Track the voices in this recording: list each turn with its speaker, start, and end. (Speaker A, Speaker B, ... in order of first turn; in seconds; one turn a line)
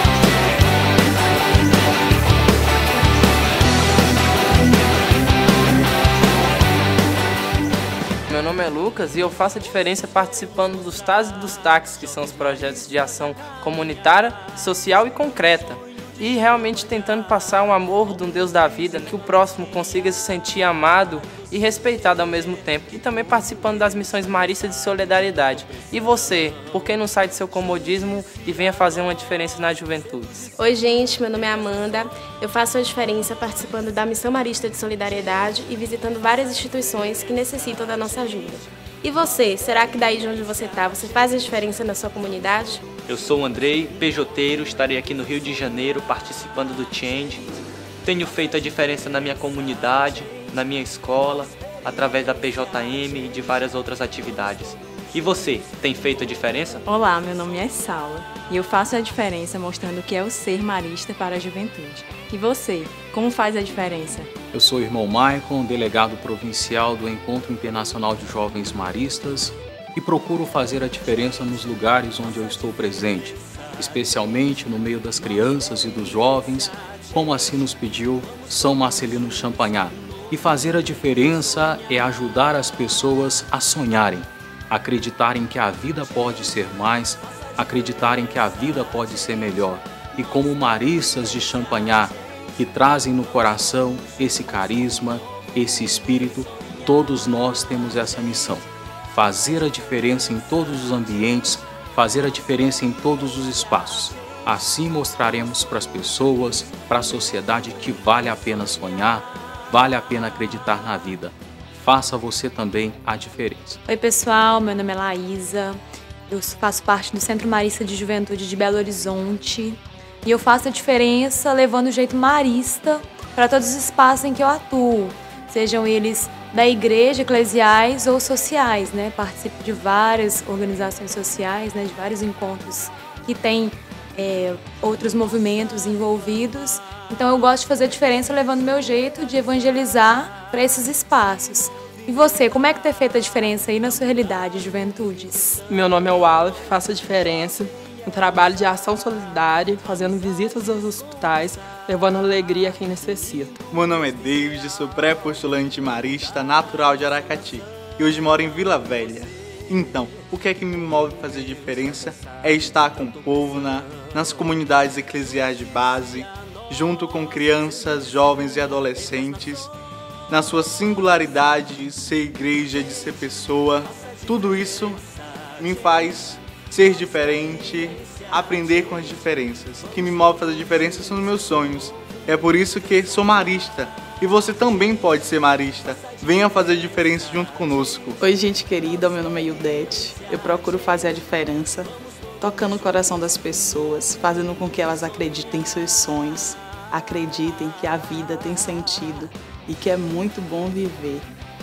Speaker A: 8.3-30.5
Speaker B: 30.6-42.8
Speaker C: 43.0-47.5
Speaker C: 48.0-56.8
Speaker D: 56.9-64.3
Speaker E: 64.5-113.8
Speaker F: 113.9-145.6
Speaker G: 145.7-153.5
Speaker H: 153.7-169.7
Speaker H: 170.3-175.0
Speaker H: 175.6-188.2
Speaker I: 188.2-201.3